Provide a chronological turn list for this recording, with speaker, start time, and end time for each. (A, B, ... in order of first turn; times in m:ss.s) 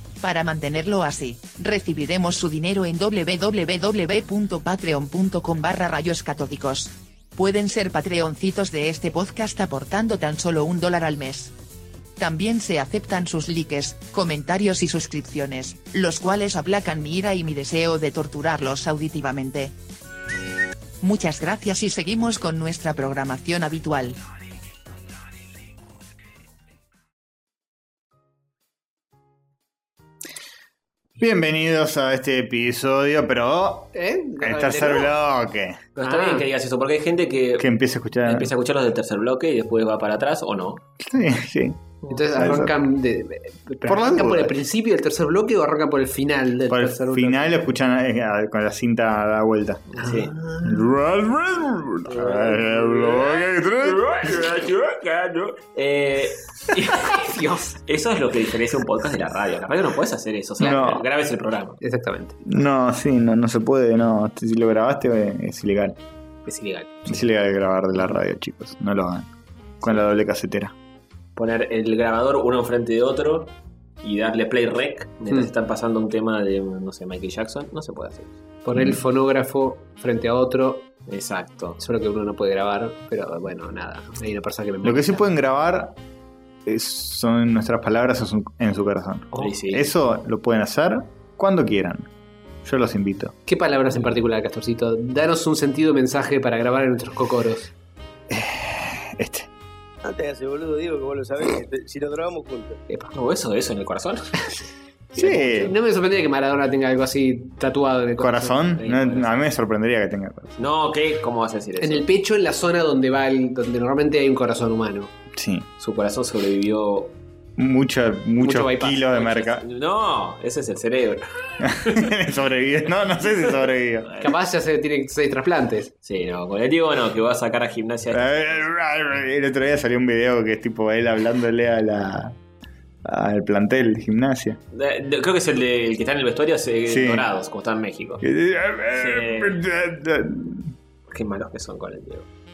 0:00.2-0:11.5 A
0:12.2-0:19.8 A
0:21.0-0:24.2 A
0:31.2-0:35.8 B
0:33.9-0:35.1 C
0:36.0-0:36.4 C
0:36.0-0:37.7 D
0:37.6-0:38.5 B
0:38.2-0:40.8 D
0:41.0-0:42.7 B
0:42.1-0:47.5 C
0:43.8-0:44.5 B
0:46.7-0:49.9 B
0:49.9-0:50.3 D
0:50.0-0:50.8 C
0:50.6-0:54.4 B
0:52.1-1:01.8 D
0:57.0-0:57.8 C
1:00.6-1:01.0 B
1:01.8-1:02.4 C
1:02.4-1:06.0 B
1:06.5-1:06.9 C
1:07.1-1:09.3 B
1:09.8-1:10.0 D
1:09.8-1:10.7 B
1:11.4-1:18.3 D
1:18.6-1:20.9 C
1:21.1-1:21.8 D
1:21.8-1:25.2 C
1:24.8-1:26.0 B
1:26.6-1:32.1 B
1:29.4-1:29.9 D
1:32.6-1:33.3 B
1:33.5-1:37.7 C
1:38.3-1:39.5 B
1:40.0-1:42.8 E
1:43.1-1:44.5 D
1:45.2-1:45.7 B
1:45.2-1:45.7 D
1:45.6-1:48.6 C
1:48.2-1:50.5 B
1:48.8-1:49.3 D
1:50.6-1:52.0 D
1:51.8-1:55.1 C
1:55.3-1:55.7 B
1:55.8-1:57.1 D
1:57.6-1:59.6 B
1:58.4-1:59.0 C
1:59.1-2:02.1 D
2:01.6-2:04.1 B
2:03.3-2:04.3 D
2:04.2-2:05.9 C
2:06.0-2:08.6 D
2:08.1-2:12.4 B
2:13.0-2:14.6 B
2:14.7-2:18.2 D
2:16.9-2:17.3 B
2:18.2-2:20.7 B
2:18.9-2:19.6 D
2:21.1-2:22.3 D